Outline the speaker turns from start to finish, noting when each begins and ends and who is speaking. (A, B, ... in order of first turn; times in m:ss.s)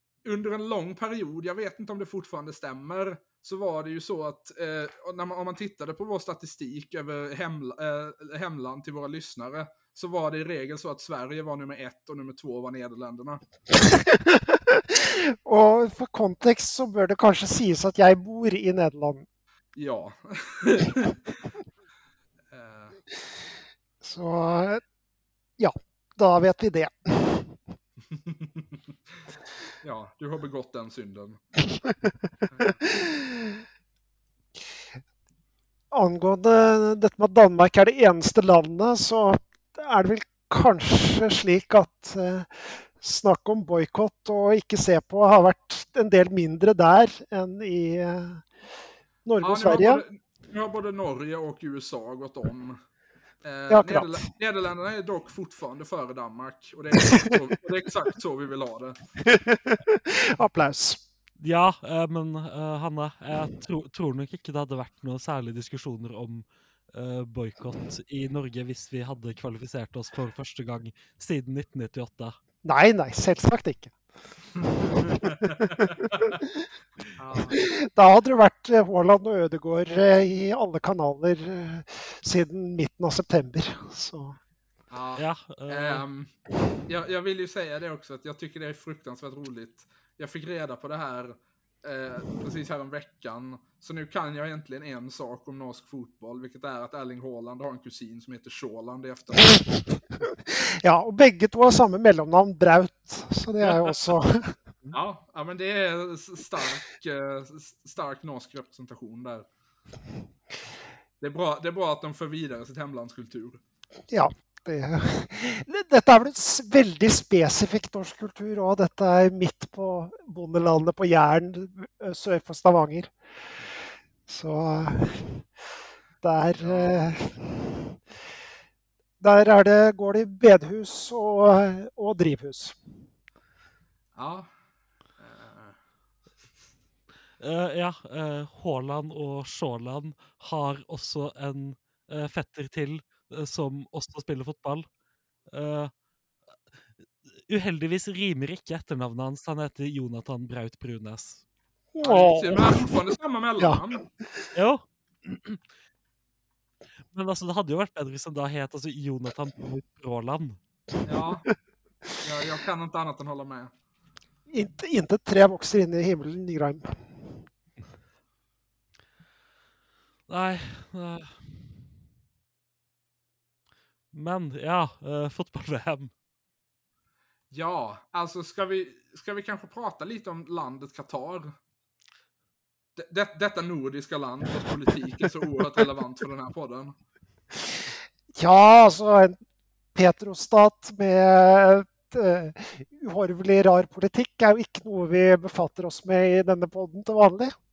0:00.2-0:13.4 A
0:13.7-0:19.3 B
0:19.8-0:21.2 A
0:22.5-0:23.0 A
0:24.0-0:24.8 B
0:25.6-0:27.6 B
0:28.1-0:28.8 A
0:29.8-0:31.4 A
0:31.8-0:33.6 B
0:32.5-0:32.8 A
0:35.9-0:48.4 B
0:49.2-0:50.0 B
0:49.4-0:52.8 A
0:53.4-0:59.0 A
0:53.7-0:54.2 B
0:59.2-1:01.0 B
1:01.4-1:12.4 C
1:12.6-1:13.9 B
1:15.0-1:16.6 B
1:17.2-1:17.6 A
1:17.5-1:24.4 B
1:24.9-1:26.3 A
1:25.2-1:26.0 C
1:26.9-1:39.9 A
1:40.3-1:44.5 B
1:44.9-1:49.5 A
1:51.2-1:53.6 A
1:54.1-2:03.1 B
2:04.3-2:05.4 B
2:06.2-2:08.0 B
2:06.6-2:07.1 A
2:09.2-2:12.8 B
2:14.1-2:14.5 A
2:15.2-2:15.8 A
2:17.4-2:24.9 C
2:25.5-2:25.9 C
2:27.5-2:31.4 C
2:31.9-2:32.9 B
2:32.0-2:34.0 A
2:33.6-2:33.8 B
2:34.5-2:35.6 C
2:37.1-2:40.6 C
2:41.0-2:41.5 A
2:42.2-2:43.7 A
2:44.5-2:47.3 B
2:50.3-2:51.4 C
2:54.1-2:56.1 C
2:57.5-3:01.5 A
3:03.0-3:06.9 A
3:08.3-3:09.4 B
3:09.9-3:17.5 B